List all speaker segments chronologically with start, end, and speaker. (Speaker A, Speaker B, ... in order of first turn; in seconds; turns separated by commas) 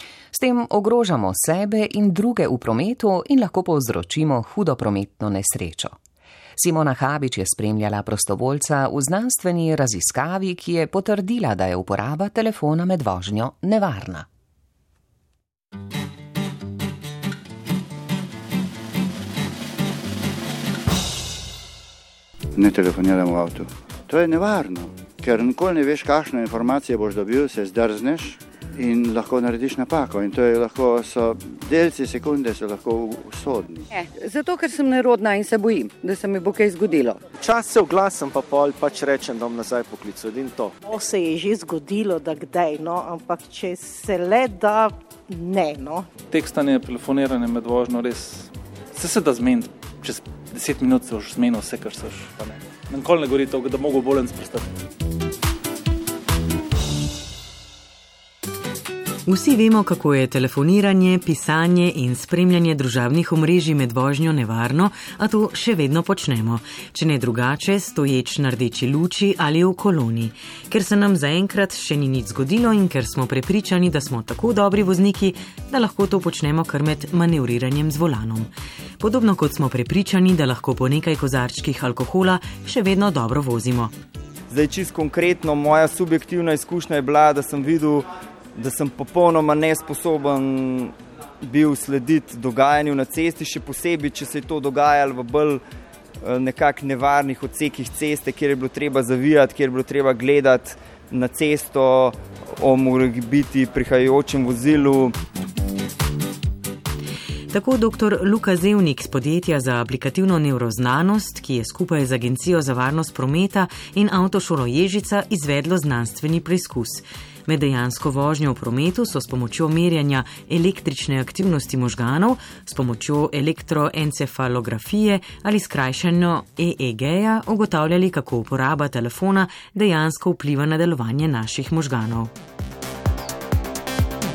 Speaker A: 0.3-6.0, Speaker A: 6.6-14.2, Speaker B: 22.6-33.9, Speaker C: 33.9-37.2, Speaker D: 37.4-40.7, Speaker E: 40.8-46.1, Speaker F: 46.3-54.7, Speaker G: 59.3-83.9, Speaker H: 84.5-90.9, Speaker H: 91.5-95.6, Speaker H: 96.2-105.1, Speaker G: 107.5-132.3